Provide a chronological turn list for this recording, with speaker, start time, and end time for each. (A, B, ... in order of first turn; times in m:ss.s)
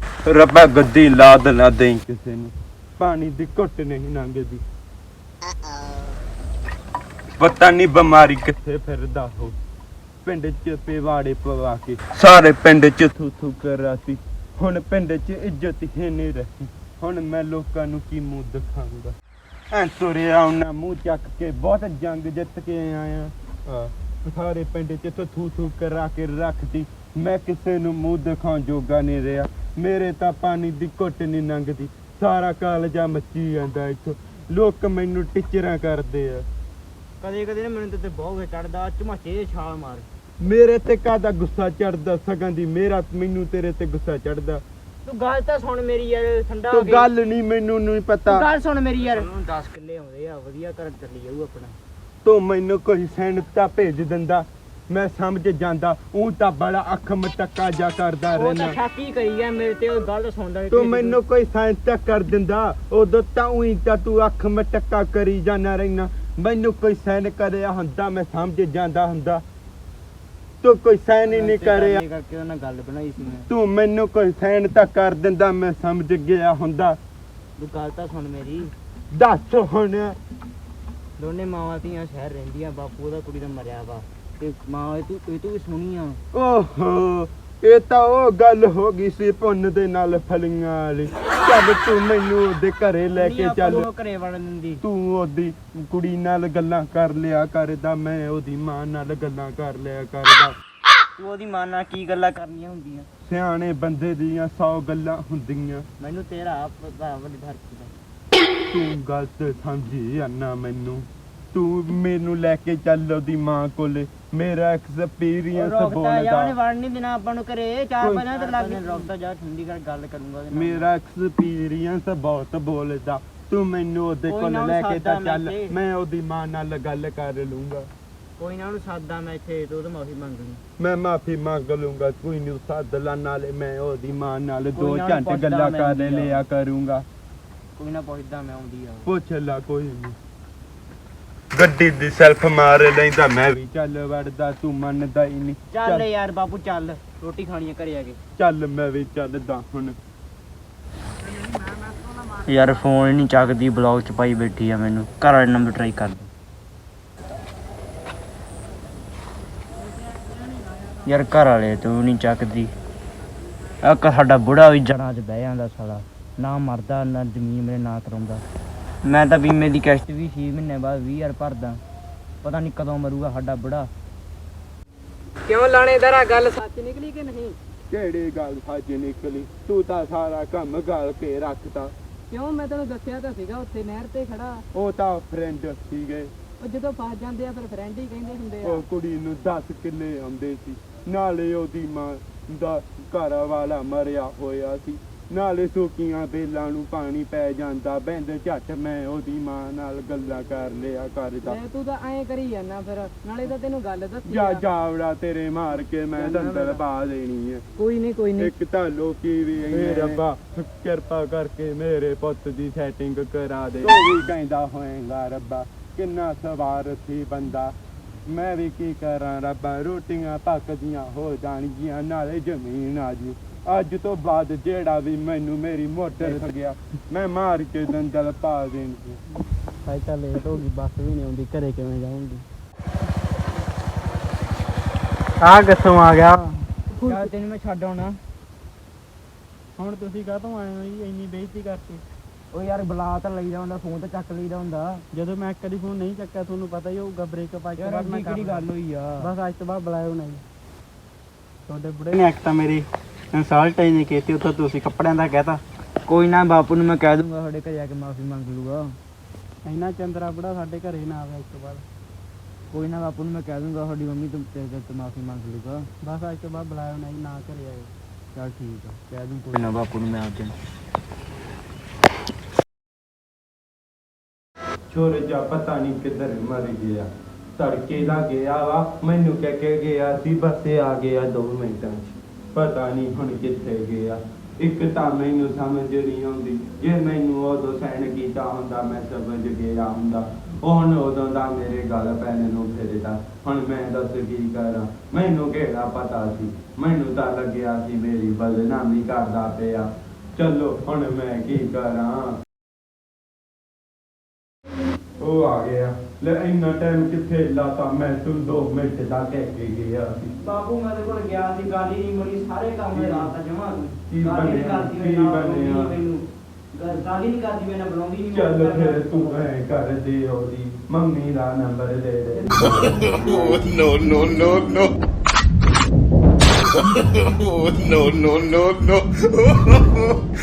0:00.2-0:04.6 A
0:07.4-0:09.5 A
0:10.2-0:19.2 A
0:19.7-0:36.4 A
0:37.2-0:40.0 B
0:40.4-0:44.6 A
0:45.0-0:47.1 B
0:46.7-0:48.5 A
0:48.3-0:51.7 B
0:52.2-0:58.8 A
0:58.3-1:01.2 B
1:00.7-1:09.4 A
1:10.6-1:12.0 A
1:11.3-1:13.5 B
1:13.5-1:17.0 A
1:17.6-1:18.7 B
1:19.1-1:20.2 A
1:21.2-1:26.2 B
1:26.3-1:33.9 A
1:33.1-1:34.8 B
1:34.8-1:40.5 A
1:41.2-1:43.1 B
1:43.2-1:45.8 A
1:46.0-1:47.9 B
1:48.7-1:56.5 A
1:55.5-2:00.9 B
1:58.0-1:58.5 A
2:00.5-2:07.9 A
2:04.3-2:05.7 B
2:08.4-2:10.6 B
2:10.8-2:17.0 A
2:14.8-2:16.4 B
2:17.8-2:19.1 B
2:19.0-2:20.2 A
2:21.5-2:26.1 A
2:25.7-2:28.2 B
2:28.4-2:30.0 A
2:32.4-2:36.3 B
2:41.0-2:42.7 B
2:43.8-2:48.4 B
2:49.0-2:51.8 B
2:52.4-2:53.9 B
2:55.5-2:57.6 C
2:57.9-3:01.9 A
3:02.3-3:04.6 C
3:04.7-3:06.3 A
3:06.6-3:08.8 C
3:08.6-3:21.6 A
3:21.4-3:24.6 C
3:24.2-3:27.6 A
3:26.2-3:26.8 C
3:27.8-3:28.5 C
3:28.4-3:37.7 A
3:38.3-3:49.2 A
3:49.8-3:52.4 D
3:55.4-3:56.6 D
3:57.0-3:57.3 C
3:57.0-3:58.2 B
3:59.8-4:02.0 D
4:02.5-4:05.0 B
4:05.1-4:08.6 D
4:07.8-4:09.3 B
4:09.2-4:10.4 D
4:11.7-4:12.8 D
4:13.3-4:15.6 D
4:16.0-4:19.0 B
4:19.6-4:21.8 D
4:22.7-4:25.9 B
4:26.0-4:27.9 D
4:28.3-4:30.5 B
4:34.9-5:02.4 A
5:05.2-5:10.3 A
5:10.4-5:19.5 B
5:12.9-5:13.3 A
5:14.1-5:16.0 A
5:18.3-5:24.7 A
5:23.0-5:24.9 E
5:27.0-5:30.1 E
5:27.3-5:27.6 A
5:28.3-5:28.6 A
5:29.4-5:29.9 A